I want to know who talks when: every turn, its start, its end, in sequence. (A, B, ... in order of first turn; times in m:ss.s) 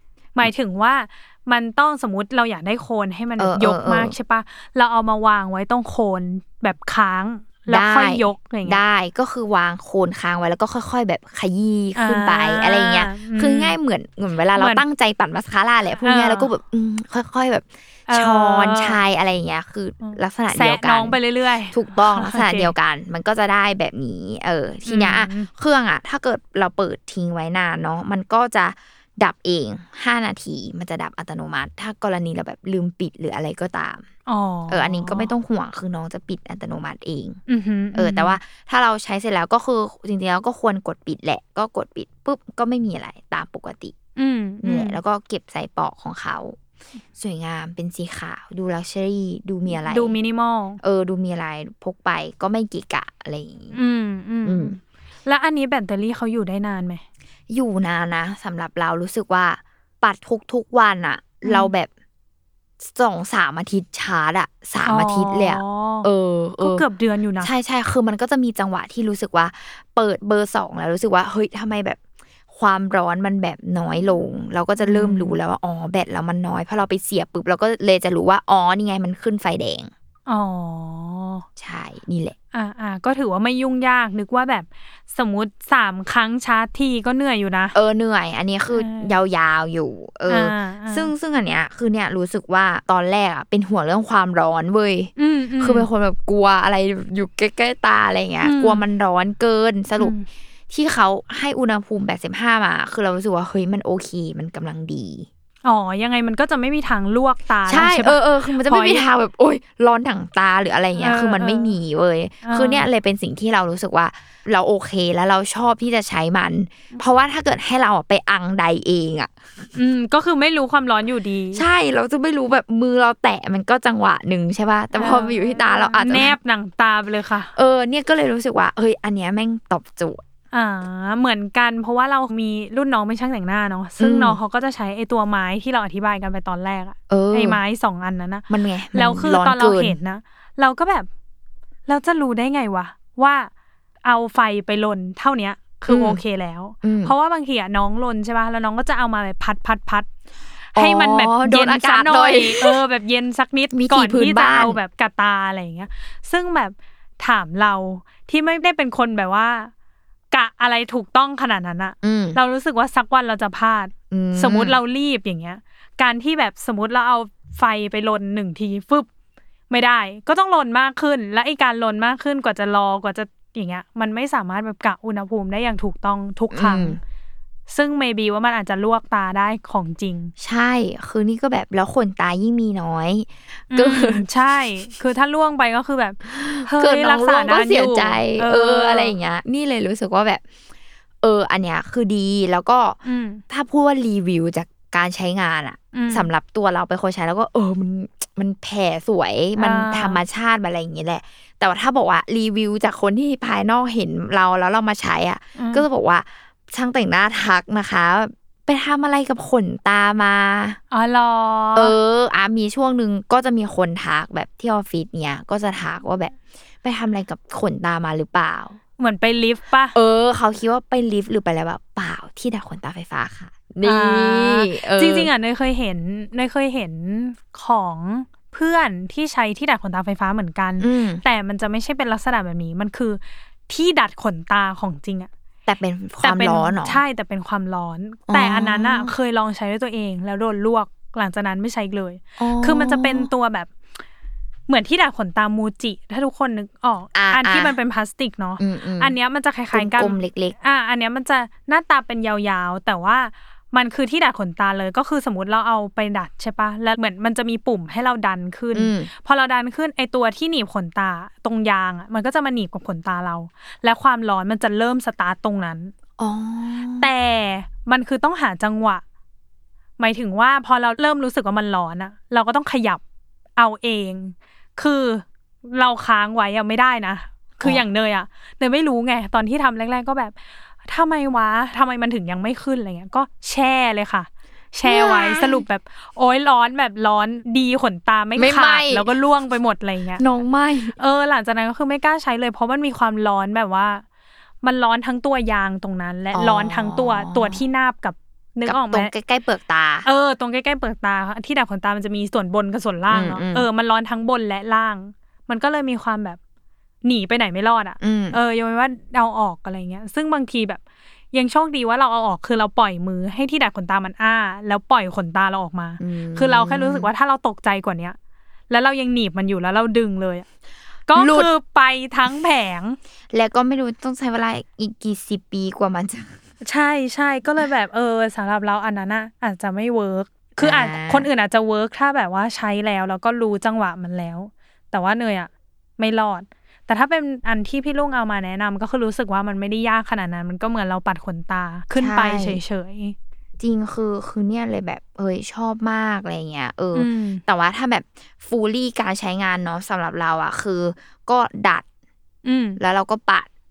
0:00.4-0:08.8 A
0:03.4-0:04.2 B
0:07.7-0:21.2 B
0:12.0-0:13.8 A
0:14.6-0:14.8 A
0:16.0-0:16.5 A
0:18.1-0:19.0 A
0:20.0-0:22.7 A
0:21.7-0:34.1 B
0:24.9-0:25.5 A
0:34.3-0:35.3 A
0:34.7-0:37.4 B
0:37.5-0:38.4 A
0:38.0-0:44.0 B
0:44.2-0:45.0 A
0:44.6-0:46.6 B
0:47.2-0:50.1 B
0:49.8-0:50.8 A
0:50.8-0:53.8 B
0:53.7-0:57.0 A
0:54.4-0:54.8 B
0:57.5-1:01.9 B
1:01.4-1:01.7 A
1:02.8-1:06.8 B
1:04.8-1:06.1 A
1:06.6-1:07.5 A
1:07.4-1:12.0 B
1:12.5-1:19.9 B
1:14.8-1:15.4 A
1:20.3-1:21.5 A
1:21.6-1:22.4 B
1:22.5-1:27.8 A
1:27.7-1:40.2 B
1:28.7-1:29.2 A
1:30.3-1:31.1 A
1:35.2-1:35.9 A
1:38.4-1:38.8 A
1:40.0-1:40.3 A
1:40.7-1:45.3 B
1:45.6-1:49.0 A
1:47.7-1:59.7 B
1:51.0-1:51.8 A
1:52.4-1:52.9 A
1:59.8-2:01.6 A
2:01.5-2:06.4 B
2:04.9-2:07.5 A
2:07.6-2:10.2 B
2:10.5-2:21.1 A
2:14.0-2:14.4 B
2:17.1-2:17.6 B
2:18.5-2:20.0 B
2:21.9-2:23.5 A
2:24.0-2:30.1 A
2:25.9-2:26.2 B
2:26.8-2:27.1 B
2:30.7-2:39.7 A
2:30.8-2:32.8 B
2:33.7-2:34.8 B
2:40.3-2:49.1 A
2:42.0-2:42.4 B
2:44.1-2:44.8 B
2:49.7-2:57.0 A
2:56.5-2:57.0 B
2:57.7-3:00.3 A
3:00.4-3:04.3 B
3:03.7-3:09.1 A
3:06.2-3:10.4 B
3:11.2-3:13.0 B
3:13.0-3:13.4 A
3:13.5-3:30.8 B
3:15.9-3:16.3 A
3:19.6-3:20.2 A
3:25.6-3:25.9 A
3:30.9-3:32.0 A
3:31.8-3:38.8 B
3:39.0-3:40.0 A
3:40.0-3:45.3 B
3:43.8-3:55.3 A
3:50.8-3:51.2 B
3:55.7-3:57.0 B
3:56.2-4:03.7 A
3:58.3-3:59.1 B
4:02.4-4:03.3 B
4:04.7-4:25.9 A
4:07.1-4:07.8 B
4:08.6-4:09.2 B
4:09.7-4:10.6 B
4:18.7-4:19.1 B
4:26.2-4:27.1 B
4:27.0-4:29.0 A
4:30.0-4:33.0 A
4:33.6-4:50.2 A
4:44.8-4:45.6 B
4:48.4-4:49.1 B
4:50.2-4:51.0 B
4:51.0-4:54.0 A
4:54.6-4:59.1 A
4:56.3-4:57.6 B
4:58.6-5:00.1 B
5:00.0-5:06.4 A
5:03.1-5:03.7 B
5:07.0-5:10.8 A
5:08.0-5:08.4 B
5:11.3-5:18.2 A
5:16.0-5:17.1 B
5:18.7-5:20.5 A
5:21.1-5:23.0 A
5:21.2-5:21.5 B
5:23.3-5:26.4 B
5:26.6-5:43.2 A
5:30.6-5:31.3 B
5:42.0-5:42.6 B
5:43.6-5:51.8 B
5:47.0-5:47.4 A
5:52.4-5:52.8 A
5:52.8-5:53.5 B